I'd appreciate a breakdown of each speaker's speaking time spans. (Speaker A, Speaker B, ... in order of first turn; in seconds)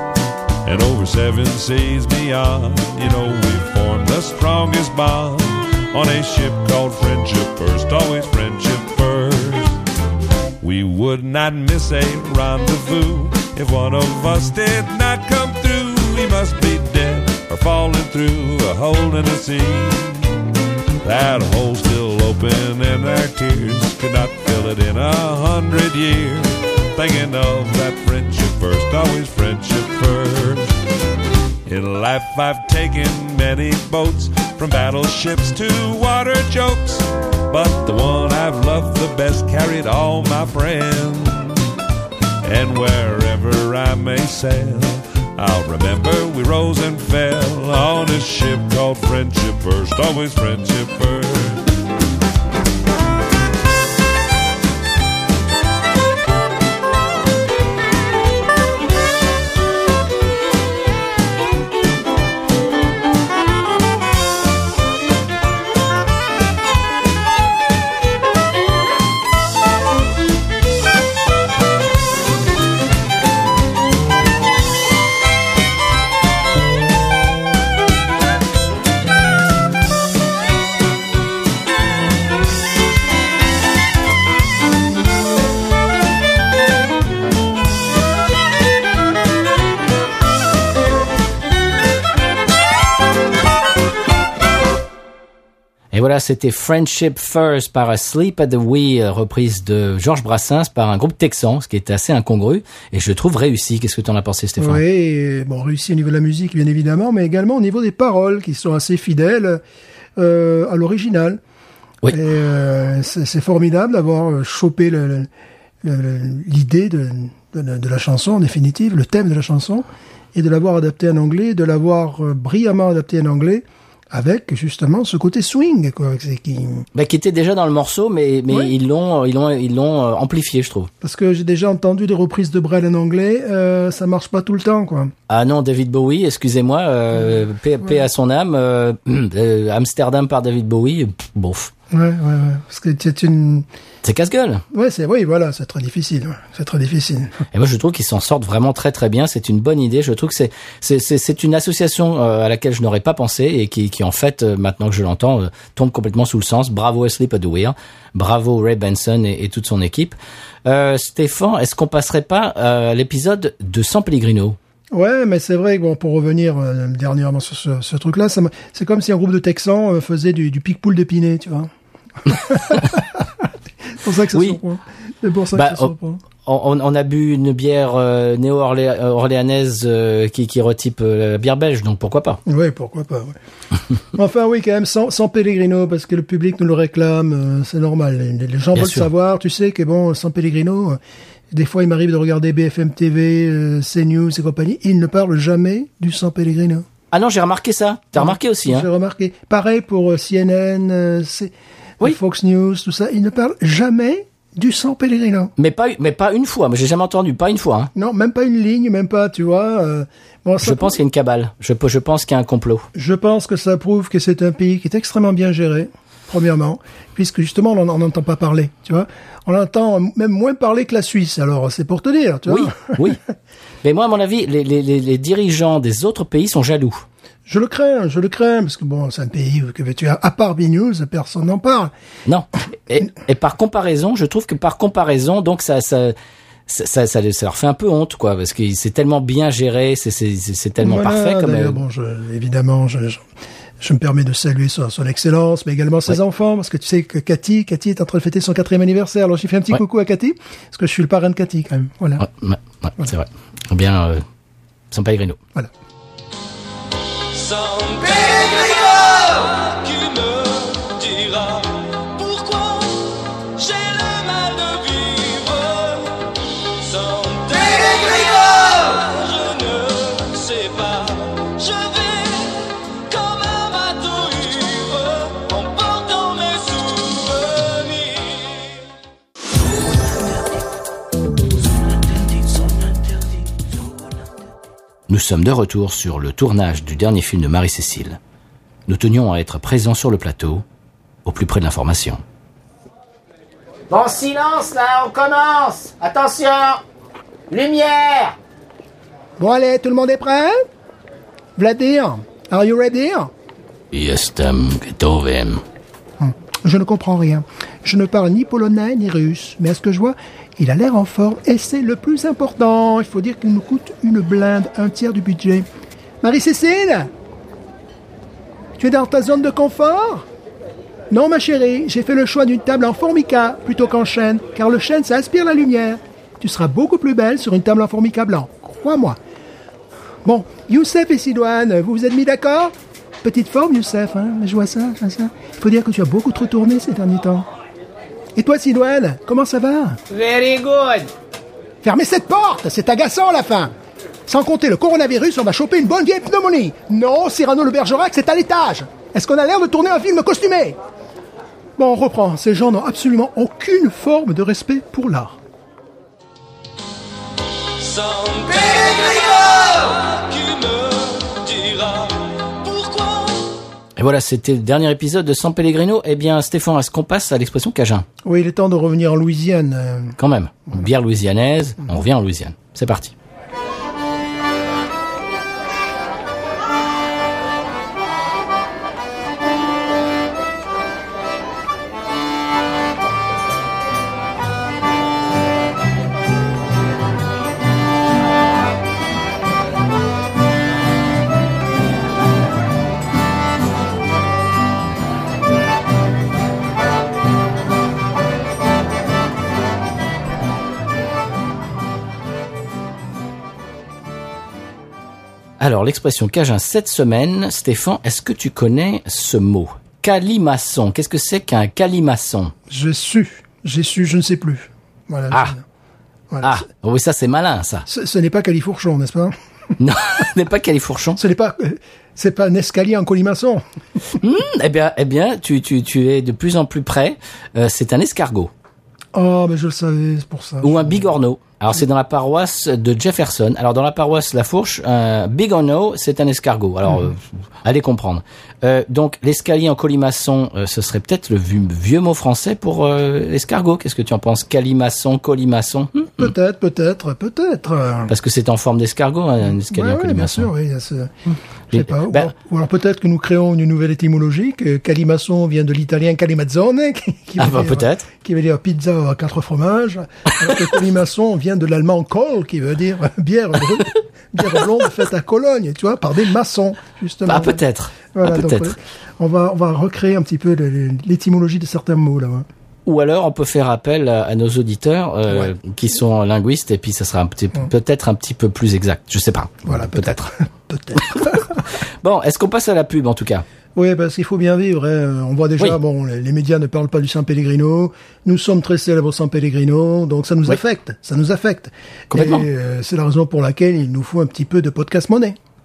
Speaker A: 0.7-9.8, 10.6-20.3, 21.0-30.8, 31.7-41.6, 42.4-51.7
Speaker B: 95.9-104.8, 127.0-130.9, 135.3-141.7, 144.0-144.6, 147.5-160.2, 160.7-164.6, 174.3-174.6, 175.5-182.4, 188.8-189.1, 197.1-198.9, 205.6-207.9, 210.6-212.9, 222.5-223.2, 223.8-227.1, 232.3-236.1, 236.7-241.8, 252.2-254.2, 254.9-255.4, 285.1-288.2, 288.9-290.6, 291.2-292.2, 303.9-305.6, 364.0-368.1, 370.2-373.1, 405.6-412.5, 416.4-417.9, 419.8-421.2, 424.2-428.5, 430.6-446.3, 448.1-450.5, 451.7-452.3, 457.4-458.1, 467.3-468.8, 472.9-480.3, 481.1-481.4, 482.0-483.4, 492.1-492.5
Speaker C: 104.6-109.6, 110.2-111.4, 112.1-115.3, 115.8-126.9, 131.0-135.1, 141.9-143.7, 144.7-147.4, 164.9-171.7, 172.2-173.5, 174.0-176.2, 182.5-183.4, 184.1-191.0, 191.5-196.9, 198.2-205.5, 207.9-211.0, 212.9-223.1, 227.5-231.9, 240.8-243.2, 243.8-252.2, 299.4-300.6, 301.6-303.3, 306.2-315.7, 316.2-317.1, 318.8-320.3, 321.1-329.2, 330.2-337.5, 338.4-340.0, 341.8-343.7, 344.3-350.8, 351.8-355.4, 368.2-370.1, 412.7-415.6, 416.3-416.6, 417.9-419.3, 421.2-423.6, 429.1-431.1, 446.2-448.1, 449.5-451.2, 451.7-472.5, 479.7-481.6, 483.8-495.4
Speaker D: 257.3-278.8, 282.2-283.0, 357.8-363.6
Speaker E: 293.9-296.8, 297.5-298.4, 340.1-341.1